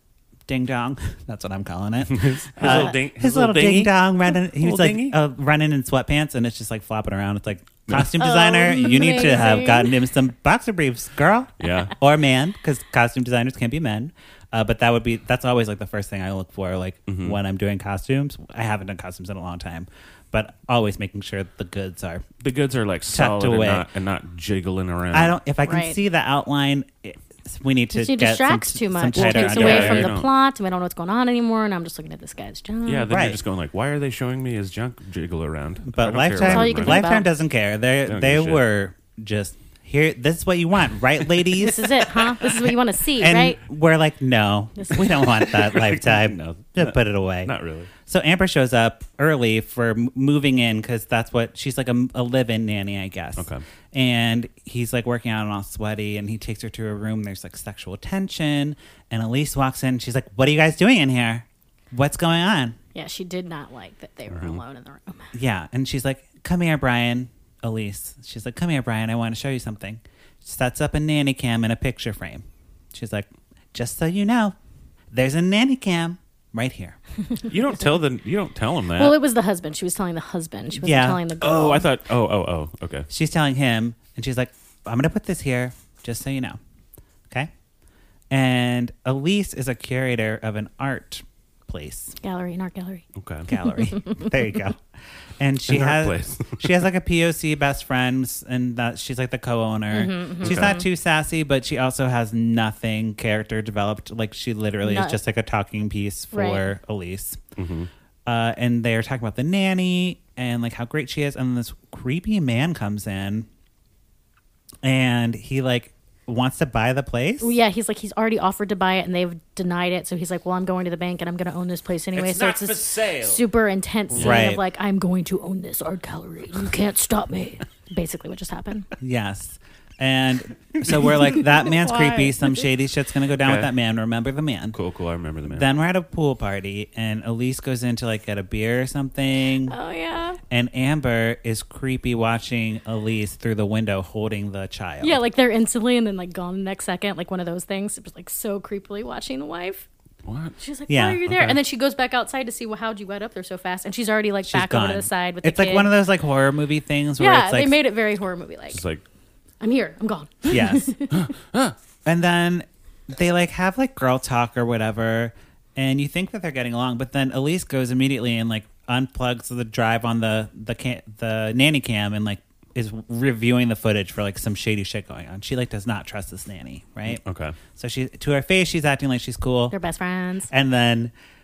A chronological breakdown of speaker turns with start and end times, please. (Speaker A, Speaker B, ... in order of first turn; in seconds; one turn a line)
Speaker A: 0.5-22.2
Speaker B: 2.0-5.2
Speaker C: 2.6-2.9
Speaker C: 8.2-9.9
Speaker B: 11.6-11.9
Speaker B: 17.1-17.4
Speaker B: 22.4-25.4
Speaker A: 23.1-23.9
Speaker A: 25.1-30.1
Speaker C: 25.6-26.0
Speaker C: 27.9-33.1
Speaker B: 29.1-30.3
Speaker B: 32.9-37.0
Speaker A: 33.1-33.4
Speaker A: 35.9-47.5
Speaker C: 36.4-37.3
Speaker B: 38.0-38.6
Speaker C: 41.5-43.6
Speaker C: 44.8-45.1
Speaker B: 45.2-47.9
Speaker A: 48.0-62.8
Speaker B: 53.4-53.6
Speaker C: 62.9-65.3
Speaker B: 64.3-64.6
Speaker A: 65.3-74.5
Speaker A: 75.1-77.0
Speaker B: 77.5-79.2
Speaker C: 79.0-81.9
Speaker A: 80.8-81.2
Speaker B: 81.4-83.1
Speaker A: 83.1-86.6
Speaker A: 88.3-92.1
Speaker C: 92.2-93.0
Speaker B: 93.2-93.5
Speaker A: 93.5-94.8
Speaker C: 93.6-94.3
Speaker A: 95.4-107.4
Speaker B: 95.7-96.8
Speaker C: 99.9-100.8
Speaker B: 100.4-100.8
Speaker C: 104.8-105.2
Speaker C: 106.3-106.7
Speaker B: 107.6-107.9
Speaker A: 108.2-113.5
Speaker A: 114.8-117.5
Speaker C: 117.4-128.9
Speaker B: 122.1-123.4
Speaker B: 124.1-124.4
Speaker A: 124.1-124.6
Speaker A: 129.0-134.8
Speaker C: 131.7-132.5
Speaker B: 133.4-133.7
Speaker B: 134.7-135.7
Speaker A: 135.5-139.7
Speaker C: 139.7-140.4
Speaker A: 140.5-145.2
Speaker C: 145.0-149.9
Speaker B: 150.2-150.6
Speaker C: 150.6-155.9
Speaker A: 150.9-151.3
Speaker B: 151.2-151.6
Speaker A: 154.4-157.8
Speaker C: 157.2-158.8
Speaker B: 158.7-159.0
Speaker C: 159.6-161.3
Speaker A: 160.5-161.0
Speaker B: 161.1-161.8
Speaker A: 162.0-177.2
Speaker B: 177.1-177.6
Speaker A: 177.7-179.8
Speaker C: 179.7-180.5
Speaker A: 180.5-181.1